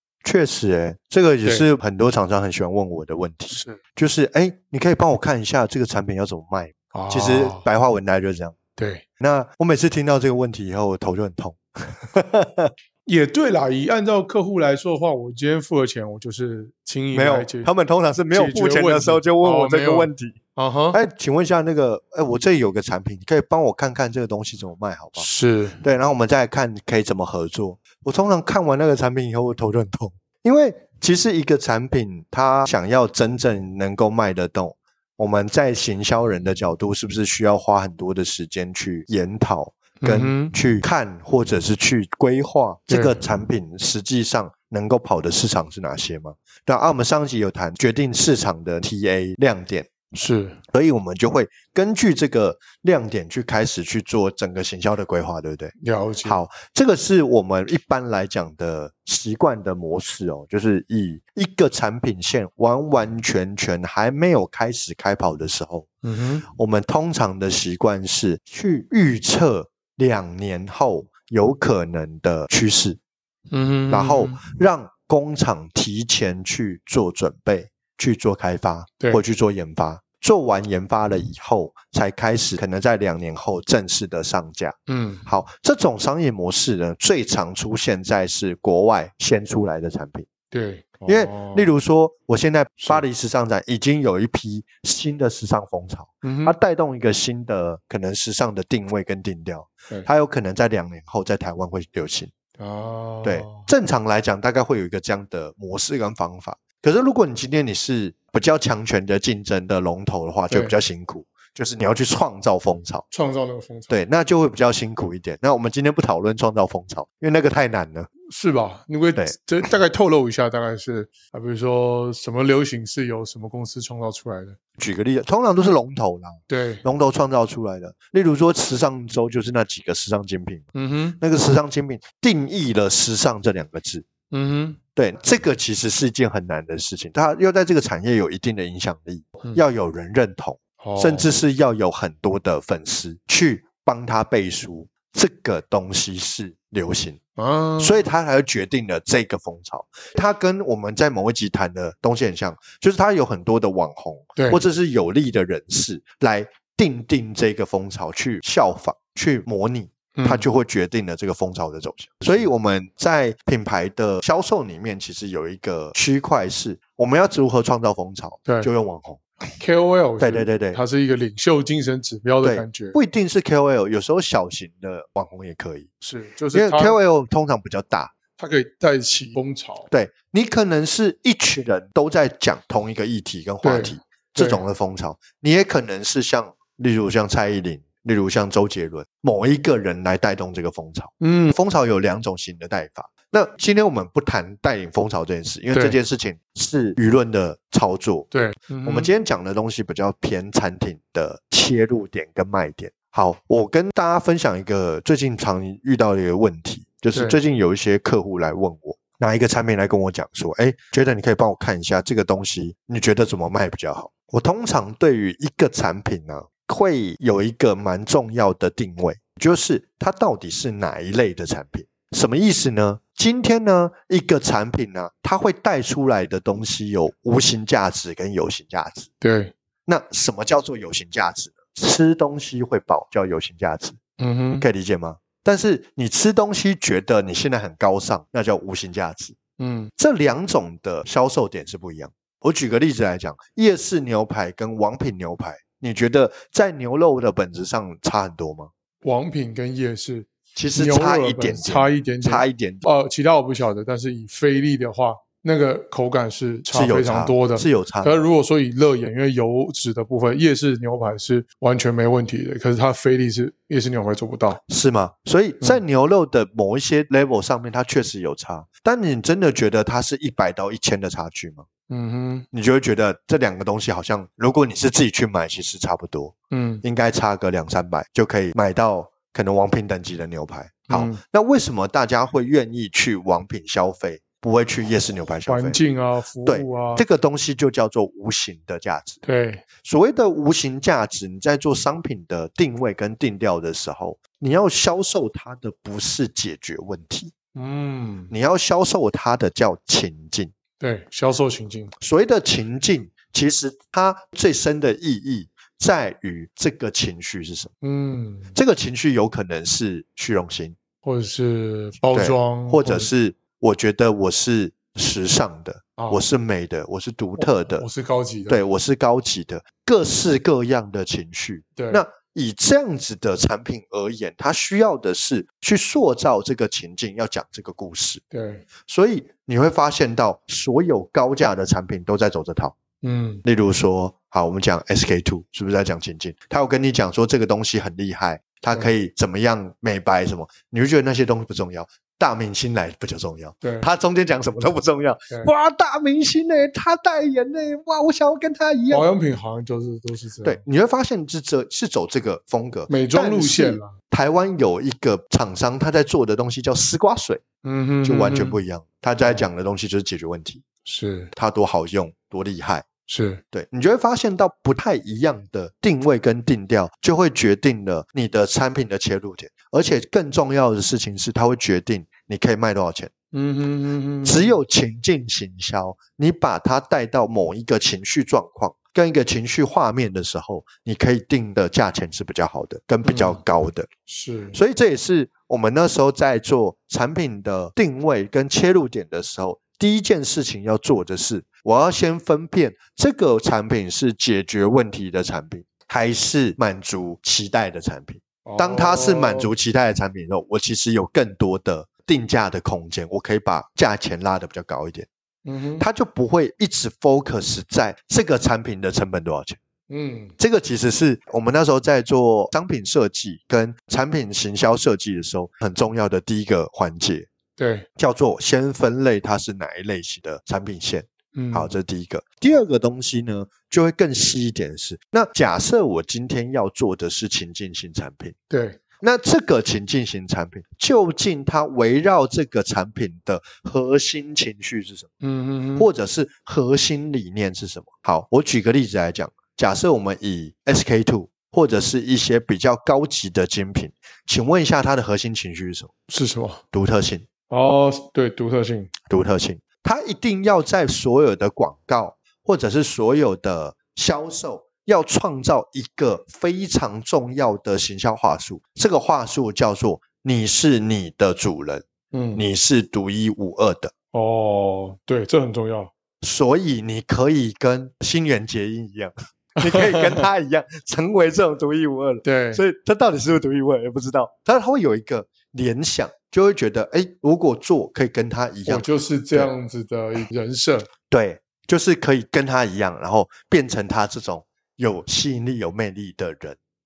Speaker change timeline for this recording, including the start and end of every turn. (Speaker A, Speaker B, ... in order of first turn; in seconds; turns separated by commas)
Speaker A: 0.2-8.6, Speaker B: 3.5-3.8, Speaker B: 6.9-7.7, Speaker B: 8.8-9.0, Speaker A: 9.2-12.7, Speaker B: 13.1-17.7, Speaker A: 17.1-20.4, Speaker B: 18.3-21.0, Speaker A: 20.9-25.3, Speaker B: 25.1-25.8, Speaker A: 25.8-49.9, Speaker B: 40.0-40.5, Speaker B: 42.9-43.2, Speaker B: 50.1-50.6, Speaker A: 50.7-65.9, Speaker B: 55.8-56.4, Speaker B: 66.0-66.4, Speaker A: 66.5-73.0, Speaker B: 73.5-74.5, Speaker A: 73.9-90.3, Speaker B: 84.9-85.3, Speaker B: 90.5-91.7, Speaker A: 91.1-102.3, Speaker B: 96.2-96.6, Speaker B: 102.6-103.7, Speaker A: 103.2-113.0, Speaker B: 110.5-110.8, Speaker B: 113.1-114.0, Speaker A: 113.9-118.1, Speaker B: 118.3-124.6, Speaker A: 124.8-130.7, Speaker B: 126.5-126.8, Speaker B: 130.7-131.2, Speaker A: 131.2-134.1, Speaker B: 134.3-134.8, Speaker A: 134.9-147.2, Speaker B: 140.8-141.3, Speaker B: 147.3-148.0, Speaker A: 147.8-169.2, Speaker B: 154.3-154.6, Speaker B: 160.1-160.4, Speaker B: 168.4-168.7, Speaker B: 169.5-173.0, Speaker A: 170.2-170.8, Speaker A: 172.4-175.9, Speaker B: 176.0-177.0, Speaker A: 176.5-178.1, Speaker B: 178.4-179.9, Speaker A: 179.9-198.3, Speaker B: 183.6-184.6, Speaker B: 191.2-191.5, Speaker B: 195.7-196.0, Speaker B: 198.3-199.1, Speaker A: 198.8-229.1, Speaker B: 229.2-229.5, Speaker A: 229.9-234.0, Speaker B: 234.2-234.7, Speaker A: 234.6-239.3, Speaker B: 239.6-239.9, Speaker A: 240.0-248.7, Speaker B: 249.0-264.6, Speaker A: 250.6-252.8, Speaker A: 256.7-258.2, Speaker A: 264.7-271.6, Speaker B: 271.9-272.4, Speaker A: 272.5-285.8, Speaker B: 276.5-276.8, Speaker B: 280.9-281.2, Speaker B: 285.4-287.0, Speaker A: 286.4-289.2, Speaker B: 289.2-289.6, Speaker A: 289.8-297.3, Speaker B: 297.5-298.3, Speaker A: 298.3-300.5, Speaker B: 300.8-301.9, Speaker A: 302.0-307.7, Speaker B: 307.8-308.5, Speaker A: 308.5-310.8, Speaker B: 311.0-313.1, Speaker A: 312.1-317.8, Speaker B: 316.0-316.2, Speaker B: 317.4-318.6, Speaker A: 318.5-328.2, Speaker B: 321.8-322.0, Speaker B: 328.3-328.6, Speaker A: 328.9-332.8, Speaker B: 333.0-333.4, Speaker A: 333.4-349.1, Speaker B: 343.6-343.9, Speaker B: 348.9-350.6, Speaker A: 350.4-357.4, Speaker B: 352.9-353.9, Speaker B: 357.6-358.6, Speaker A: 358.0-360.6, Speaker B: 360.8-361.3, Speaker A: 361.3-362.9, Speaker B: 363.1-363.4, Speaker A: 363.5-373.1, Speaker B: 373.3-374.5, Speaker A: 374.2-383.9, Speaker B: 383.0-383.4, Speaker B: 384.1-384.6, Speaker A: 384.5-405.1, Speaker B: 398.4-399.5, Speaker B: 405.4-405.8, Speaker A: 405.8-409.6, Speaker B: 409.9-410.3, Speaker A: 410.4-417.3, Speaker B: 417.6-417.9, Speaker A: 418.0-428.3, Speaker B: 421.3-421.7, Speaker B: 428.5-428.8, Speaker A: 429.0-435.1, Speaker B: 435.2-435.9, Speaker A: 435.8-445.9, Speaker B: 446.1-446.6, Speaker A: 446.7-447.2, Speaker B: 447.5-448.9, Speaker A: 449.1-463.9, Speaker B: 462.1-462.4, Speaker B: 464.1-465.9, Speaker A: 466.2-479.5, Speaker B: 469.6-470.2, Speaker B: 472.2-472.6, Speaker B: 478.6-480.9, Speaker A: 481.1-486.6